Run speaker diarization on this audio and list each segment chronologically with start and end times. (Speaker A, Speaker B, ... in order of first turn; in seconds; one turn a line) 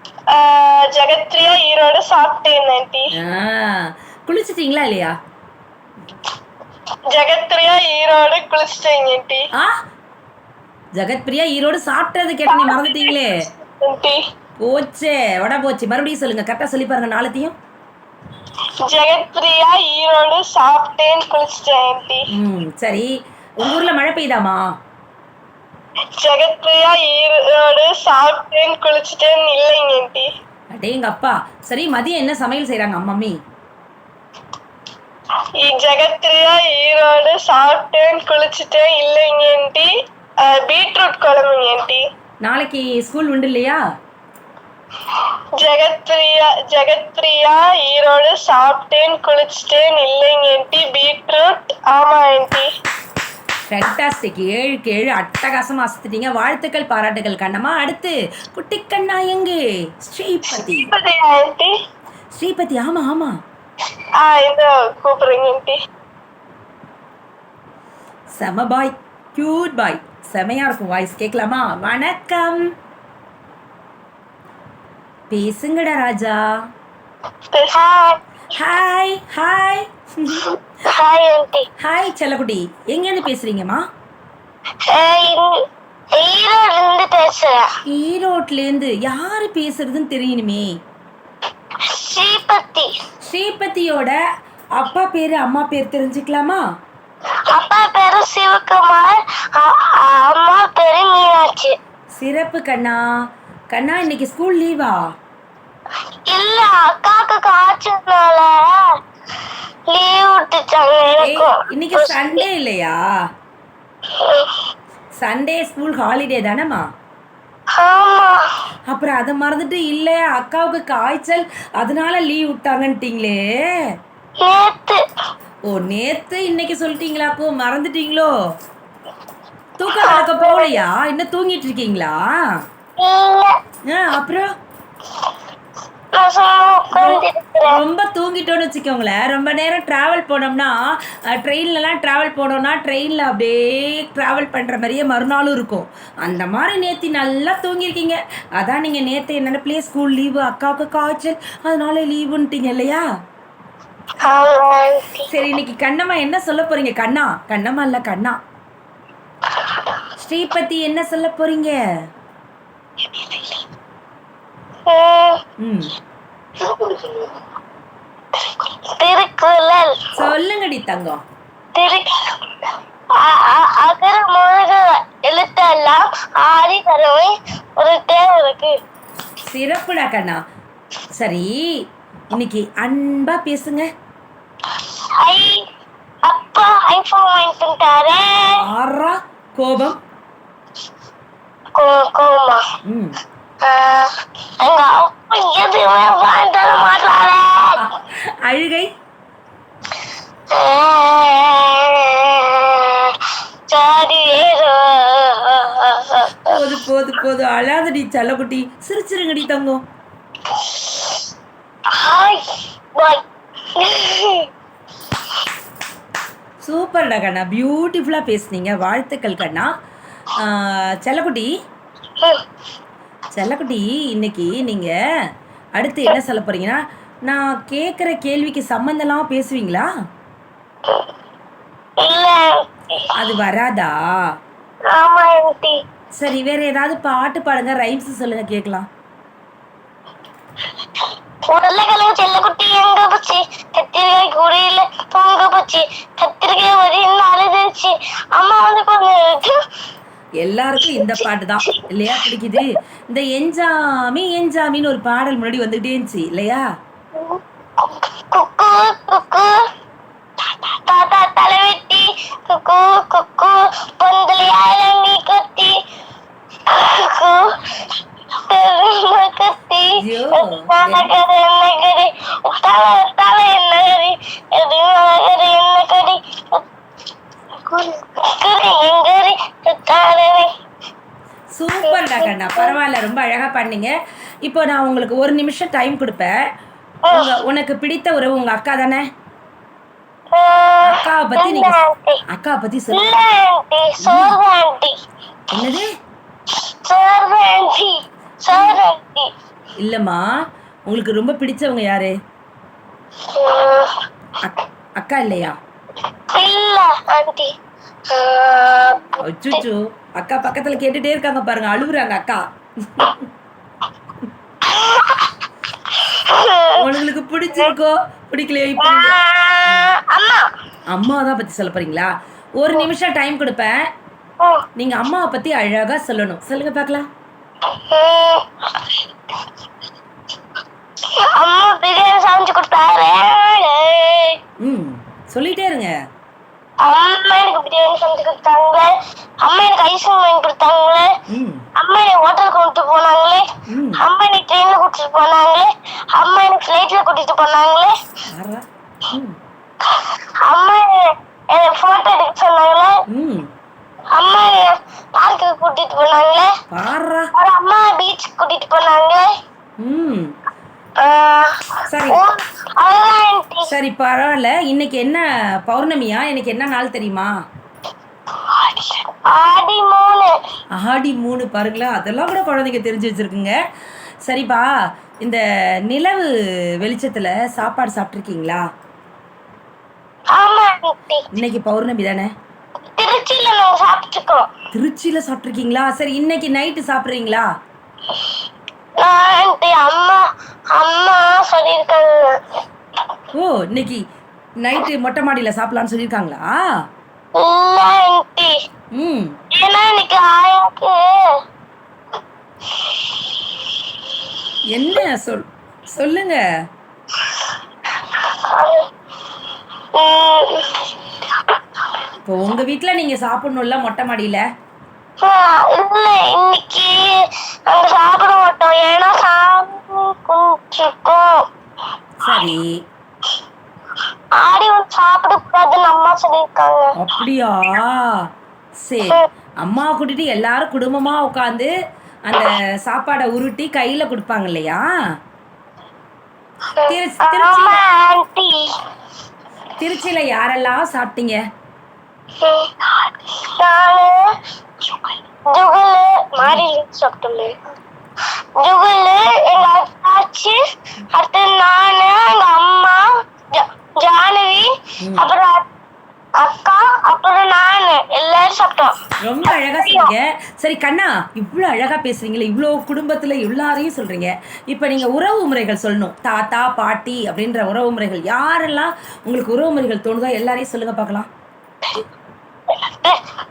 Speaker A: 0.3-3.1
Speaker B: 3.2-5.1
Speaker A: 7.2-9.4
Speaker B: 11.0-13.3
Speaker A: 12.5-13.2
Speaker A: 13.8-14.2
Speaker B: 14.6-17.6
Speaker A: 18.9-22.2
Speaker B: 22.4-24.6
Speaker A: 26.2-30.3
Speaker B: 30.8-33.4
Speaker A: 35.6-39.9
Speaker A: 40.5-42.0
Speaker B: 42.4-43.8
Speaker A: 45.6-52.7
Speaker B: 53.7-60.9
Speaker A: 60.5-61.7
Speaker B: 62.4-63.4
Speaker A: 64.2-65.8
Speaker B: 68.4-72.6
Speaker B: 75.3-76.4
Speaker A: 77.5-77.8
Speaker C: 77.7-78.2
Speaker B: 78.5-80.5
Speaker C: 80.9-81.7
Speaker B: 81.8-83.8
Speaker C: 84.9-85.6
Speaker C: 86.2-87.7
Speaker B: 87.9-90.7
Speaker C: 91.9-92.9
Speaker B: 93.3-94.2
Speaker B: 94.8-96.6
Speaker C: 97.5-101.8
Speaker B: 102.2-103.0
Speaker B: 103.7-105.0
Speaker C: 106.3-108.8
Speaker C: 109.9-112.5
Speaker B: 111.2-113.0
Speaker C: 114.2-114.7
Speaker B: 115.2-116.8
Speaker C: 117.8-118.4
Speaker B: 118.9-123.4
Speaker C: 124.4-125.0
Speaker B: 125.7-128.3
Speaker B: 129.8-132.2
Speaker C: 130.0-130.8
Speaker C: 133.0-133.6
Speaker B: 133.9-134.5
Speaker C: 136.2-137.8
Speaker B: 136.9-140.7
Speaker B: 141.3-153.0
Speaker C: 154.3-155.3
Speaker B: 155.3-158.4
Speaker B: 160.2-161.8
Speaker C: 163.1-163.6
Speaker C: 164.9-165.4
Speaker B: 165.6-165.9
Speaker C: 166.6-167.3
Speaker C: 168.5-170.1
Speaker B: 170.2-171.2
Speaker C: 171.7-172.3
Speaker C: 173.2-178.8
Speaker B: 179.5-180.4
Speaker B: 181.2-181.5
Speaker B: 182.3-183.9
Speaker C: 185.2-185.7
Speaker C: 186.3-188.6
Speaker B: 188.4-190.0
Speaker C: 191.8-192.6
Speaker B: 192.9-193.2
Speaker C: 193.6-197.8
Speaker B: 197.8-198.9
Speaker C: 200.5-206.6
Speaker B: 206.5-209.8
Speaker C: 210.6-211.2
Speaker C: 211.9-213.2
Speaker C: 213.8-214.5
Speaker B: 216.6-219.7
Speaker B: 220.4-221.5
Speaker B: 223.3-224.9
Speaker B: 225.8-229.9
Speaker C: 232.0-233.1
Speaker B: 233.1-233.9
Speaker C: 234.9-235.8
Speaker B: 236.2-238.9
Speaker C: 241.5-249.6
Speaker B: 250.4-256.6
Speaker C: 251.0-251.8
Speaker C: 257.2-259.6
Speaker C: 260.4-265.8
Speaker C: 266.7-267.9
Speaker C: 268.4-276.7
Speaker B: 270.0-271.1
Speaker C: 277.7-280.5
Speaker B: 281.6-283.9
Speaker C: 281.8-282.8
Speaker B: 284.4-286.3
Speaker C: 287.1-287.3
Speaker B: 287.1-289.1
Speaker C: 290.3-292.2
Speaker B: 290.8-291.8
Speaker B: 292.3-293.1
Speaker C: 292.9-294.9
Speaker B: 294.0-294.4
Speaker B: 295.5-295.9
Speaker C: 296.6-299.3
Speaker B: 298.5-298.8
Speaker B: 299.8-300.2
Speaker B: 300.9-302.1
Speaker C: 303.3-303.9
Speaker B: 304.4-305.6
Speaker C: 306.3-307.5
Speaker C: 308.1-309.6
Speaker B: 309.2-313.3
Speaker C: 314.6-315.4
Speaker C: 315.9-316.8
Speaker B: 316.8-319.9
Speaker C: 318.8-320.5
Speaker B: 320.9-323.7
Speaker C: 324.4-324.6
Speaker B: 324.8-327.1
Speaker C: 327.8-329.0
Speaker C: 331.1-334.4
Speaker B: 334.6-335.9
Speaker C: 336.8-338.9
Speaker C: 339.4-341.1
Speaker B: 341.3-341.6
Speaker C: 341.8-348.0
Speaker B: 343.7-344.1
Speaker B: 348.3-349.4
Speaker C: 349.9-353.0
Speaker B: 353.1-353.5
Speaker C: 354.1-356.5
Speaker B: 356.7-357.3
Speaker C: 357.4-359.3
Speaker B: 359.8-360.3
Speaker C: 361.0-363.7
Speaker B: 361.9-362.2
Speaker B: 363.7-367.3
Speaker C: 368.5-370.3
Speaker B: 370.8-373.5
Speaker B: 374.3-374.7
Speaker B: 375.2-376.3
Speaker B: 376.8-378.6
Speaker C: 380.4-381.3
Speaker B: 381.3-382.3
Speaker C: 383.0-384.5
Speaker B: 384.7-387.5
Speaker C: 389.0-390.2
Speaker C: 390.7-392.4
Speaker B: 393.3-394.0
Speaker B: 394.6-396.5
Speaker C: 397.4-398.5
Speaker B: 399.0-399.3
Speaker C: 399.6-401.2
Speaker C: 402.9-403.2
Speaker B: 404.7-406.4
Speaker C: 408.1-408.9
Speaker C: 409.9-411.1
Speaker B: 412.3-414.4
Speaker C: 415.2-421.5
Speaker B: 422.2-422.6
Speaker C: 424.4-426.9
Speaker B: 427.0-428.0
Speaker B: 428.9-431.7
Speaker B: 432.3-434.8
Speaker C: 436.8-438.8
Speaker B: 436.9-437.8
Speaker B: 439.8-441.4
Speaker C: 442.4-444.3
Speaker C: 444.9-447.6
Speaker B: 446.4-446.6
Speaker C: 448.6-450.6
Speaker C: 451.1-455.7
Speaker B: 455.0-455.3
Speaker C: 456.4-460.1
Speaker B: 459.2-471.3
Speaker C: 472.7-473.2